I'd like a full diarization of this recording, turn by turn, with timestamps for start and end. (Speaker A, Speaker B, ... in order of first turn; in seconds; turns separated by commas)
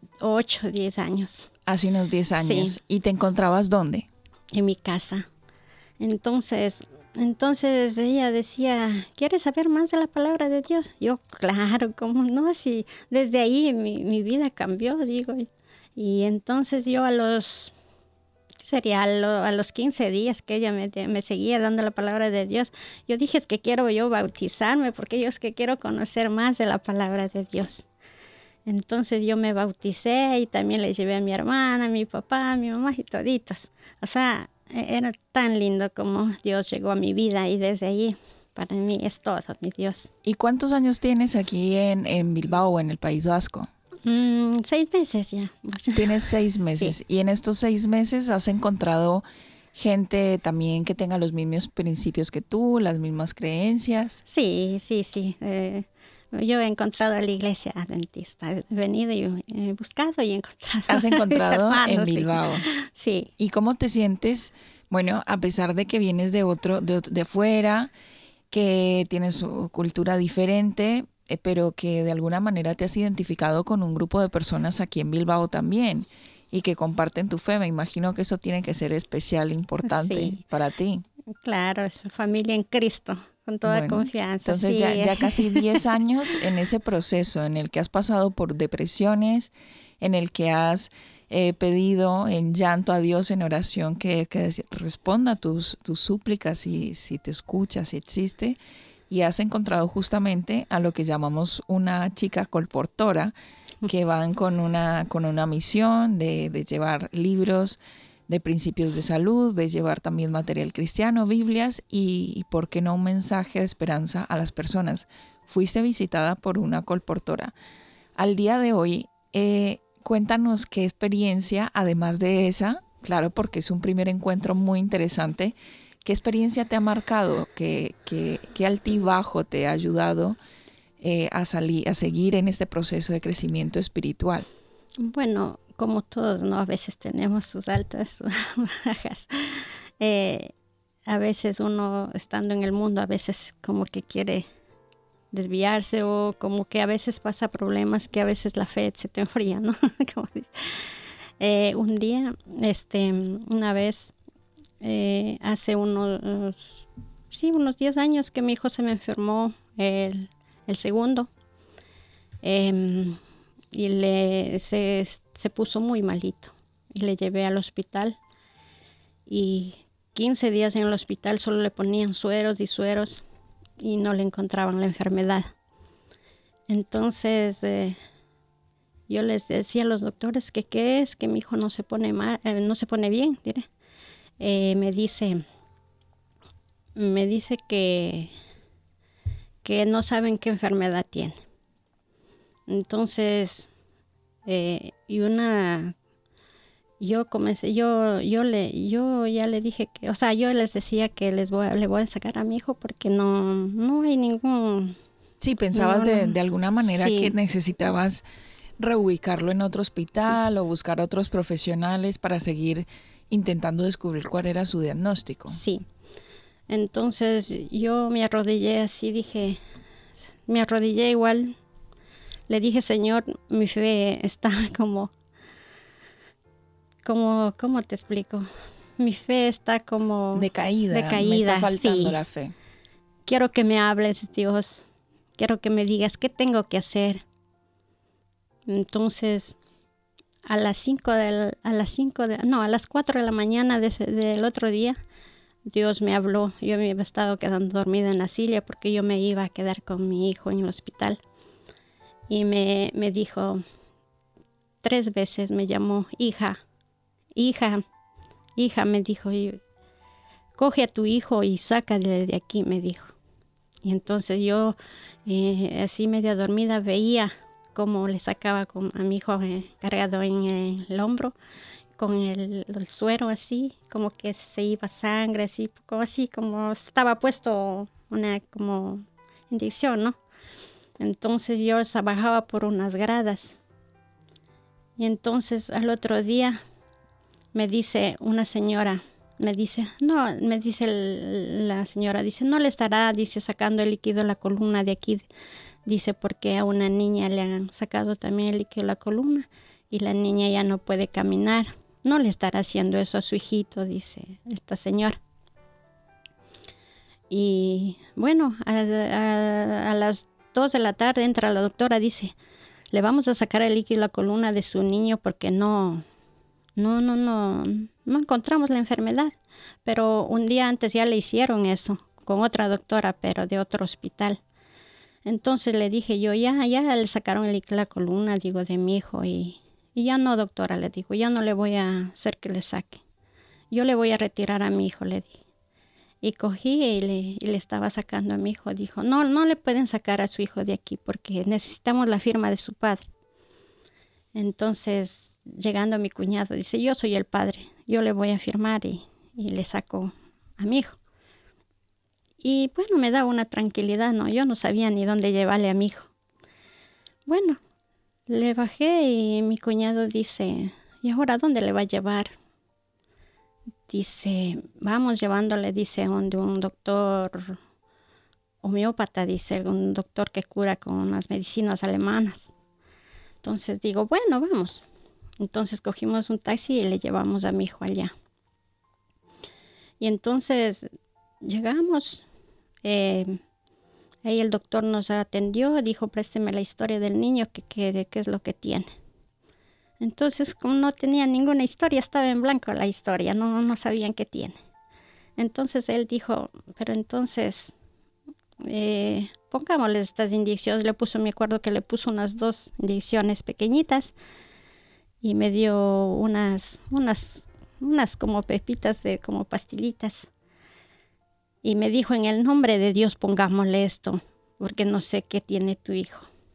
Speaker A: 0.2-1.5, Speaker B: 1.7-4.1, Speaker A: 2.4-2.8, Speaker A: 4.5-5.3, Speaker A: 6.0-17.7, Speaker A: 18.6-27.9, Speaker A: 28.7-40.1, Speaker B: 40.2-43.7, Speaker A: 44.0-46.9, Speaker B: 45.9-54.2, Speaker A: 54.3-63.3, Speaker B: 60.9-62.7, Speaker B: 63.4-67.9, Speaker B: 68.5-81.0, Speaker A: 79.8-80.4, Speaker A: 81.4-85.9, Speaker B: 83.7-98.6, Speaker B: 99.1-103.3, Speaker B: 103.9-117.5, Speaker B: 118.2-130.4, Speaker B: 131.0-134.5, Speaker A: 135.0-140.5, Speaker A: 141.1-144.4, Speaker A: 145.3-154.1, Speaker A: 154.8-156.7, Speaker A: 157.3-161.3, Speaker A: 162.4-163.2, Speaker A: 163.7-168.2, Speaker A: 169.3-173.2, Speaker A: 173.8-175.5, Speaker A: 176.7-178.0, Speaker A: 179.1-183.7, Speaker A: 184.4-185.4, Speaker A: 186.9-188.3, Speaker A: 189.6-191.4, Speaker A: 192.7-193.7, Speaker A: 194.5-195.9, Speaker A: 197.0-205.0, Speaker B: 205.4-208.2, Speaker A: 205.7-207.3, Speaker B: 208.8-215.6, Speaker A: 215.5-215.8, Speaker A: 216.7-219.6, Speaker A: 220.5-221.6, Speaker A: 222.5-225.1, Speaker A: 227.1-232.2, Speaker B: 230.3-232.6, Speaker A: 233.3-237.2, Speaker A: 238.7-239.6, Speaker A: 240.5-245.0, Speaker A: 245.7-251.2, Speaker A: 252.3-253.6, Speaker A: 254.8-256.6, Speaker A: 257.4-257.8, Speaker A: 258.6-259.6, Speaker A: 260.6-263.1, Speaker A: 263.8-271.4, Speaker A: 272.0-280.2, Speaker A: 281.0-283.6, Speaker A: 285.0-286.6, Speaker A: 287.5-295.3, Speaker A: 295.9-305.2, Speaker A: 307.3-312.4, Speaker A: 312.9-316.0, Speaker A: 316.8-319.3, Speaker A: 319.9-324.4, Speaker A: 325.2-333.0, Speaker A: 333.7-335.4, Speaker A: 336.2-343.1, Speaker A: 344.4-351.0, Speaker A: 352.4-356.1, Speaker A: 357.3-357.6, Speaker A: 358.3-362.3, Speaker A: 363.9-367.6, Speaker A: 368.6-372.5, Speaker A: 373.4-374.9, Speaker A: 375.4-378.1, Speaker A: 380.0-380.9, Speaker A: 381.4-382.3, Speaker A: 382.8-383.4, Speaker A: 384.2-388.9, Speaker A: 390.0-394.6, Speaker A: 395.4-397.8, Speaker A: 398.6-404.1, Speaker A: 405.2-410.3, Speaker A: 411.6-416.3